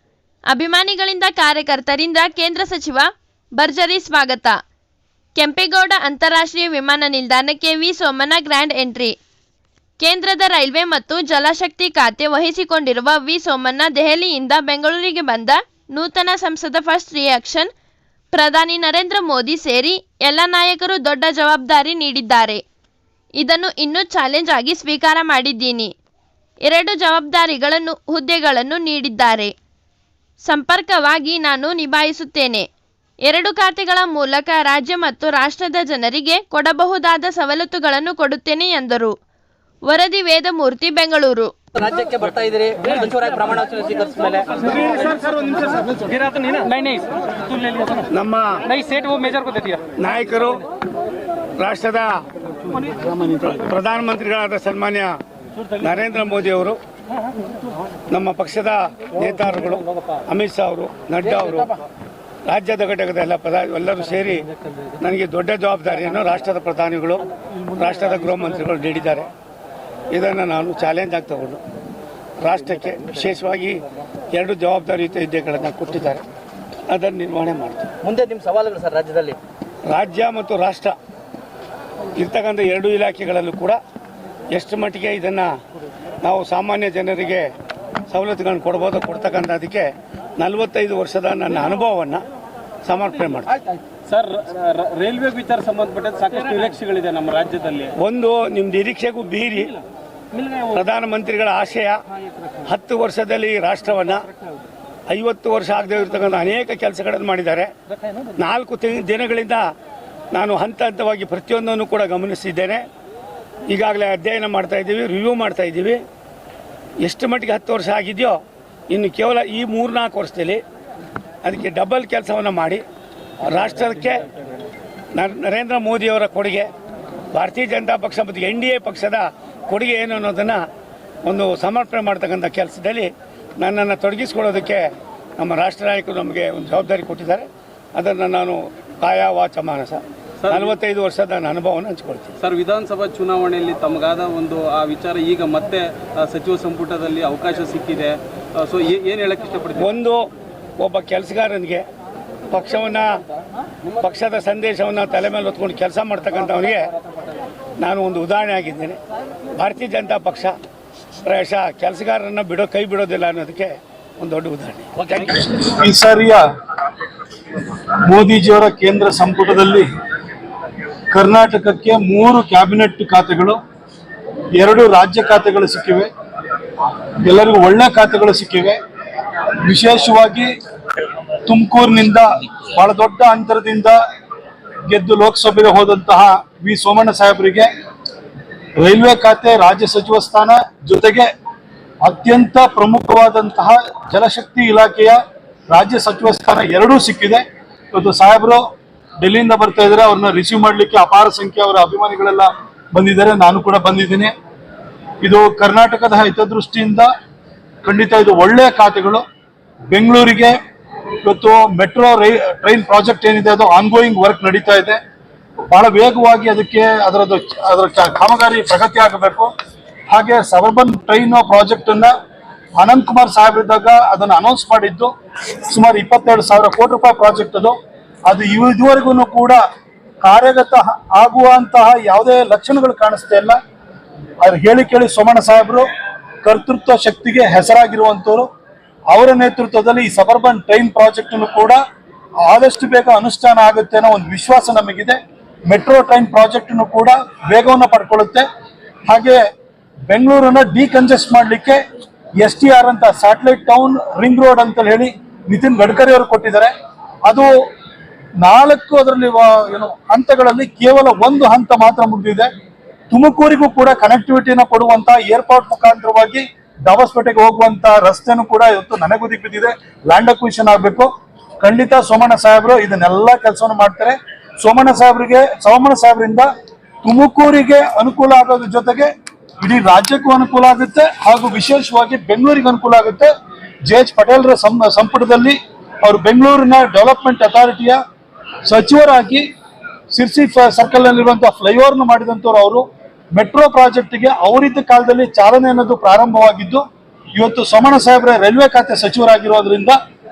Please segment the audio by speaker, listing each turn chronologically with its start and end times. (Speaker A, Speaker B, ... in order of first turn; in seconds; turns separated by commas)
Speaker A: 0.5-4.6, Speaker A: 5.3-9.2, Speaker A: 10.0-17.7, Speaker A: 18.3-22.6, Speaker A: 23.4-25.9, Speaker A: 26.7-29.5, Speaker A: 30.5-32.7, Speaker A: 33.2-39.1, Speaker A: 39.9-41.5, Speaker B: 41.7-45.1, Speaker C: 45.0-47.1, Speaker D: 48.1-49.0, Speaker C: 49.1-49.6, Speaker D: 49.8-50.6, Speaker D: 51.6-52.2, Speaker D: 52.8-55.2, Speaker D: 55.8-56.8, Speaker D: 58.1-61.7, Speaker D: 62.5-64.5, Speaker D: 65.0-69.3, Speaker D: 70.1-71.6, Speaker D: 72.4-76.2, Speaker D: 76.9-77.9, Speaker B: 78.3-79.4, Speaker D: 79.9-80.9, Speaker D: 82.2-83.8, Speaker D: 84.5-85.5, Speaker D: 86.2-87.5, Speaker D: 88.1-92.2, Speaker D: 92.8-93.5, Speaker C: 94.0-97.9, Speaker D: 98.0-99.8, Speaker D: 100.6-102.0, Speaker D: 102.6-104.3, Speaker D: 105.1-107.7, Speaker D: 108.4-109.7, Speaker D: 110.3-112.8, Speaker D: 113.7-116.0, Speaker D: 117.0-120.6, Speaker D: 121.4-122.8, Speaker D: 123.4-124.2, Speaker D: 125.1-126.7, Speaker D: 127.3-130.6, Speaker D: 131.2-142.3, Speaker C: 140.4-140.8, Speaker C: 142.4-149.9, Speaker D: 149.8-150.2, Speaker D: 150.8-151.8, Speaker D: 152.5-153.2, Speaker D: 154.0-156.9, Speaker D: 157.8-159.0, Speaker D: 159.6-160.6, Speaker D: 161.2-165.3, Speaker E: 165.3-166.4, Speaker E: 168.0-169.9, Speaker E: 171.1-173.6, Speaker E: 174.6-176.1, Speaker E: 177.2-178.8, Speaker E: 179.6-180.5, Speaker E: 181.4-184.0, Speaker E: 184.9-187.7, Speaker E: 188.8-191.3, Speaker E: 192.0-198.6, Speaker E: 199.2-204.3, Speaker E: 205.2-207.1, Speaker E: 207.8-209.2, Speaker E: 209.9-210.6, Speaker E: 211.2-215.0, Speaker E: 215.6-219.5, Speaker E: 220.1-222.1, Speaker E: 222.8-225.1, Speaker E: 225.7-229.6, Speaker E: 230.2-233.6, Speaker E: 234.4-235.9, Speaker E: 236.4-238.5, Speaker E: 239.1-241.8, Speaker E: 242.4-248.5, Speaker E: 249.1-249.4, Speaker E: 250.1-251.8, Speaker E: 252.4-256.7, Speaker E: 257.2-257.5, Speaker E: 258.4-262.5, Speaker E: 263.1-276.5, Speaker E: 277.0-283.3, Speaker E: 283.9-288.0, Speaker E: 288.6-289.5, Speaker E: 290.1-296.8, Speaker E: 297.4-300.0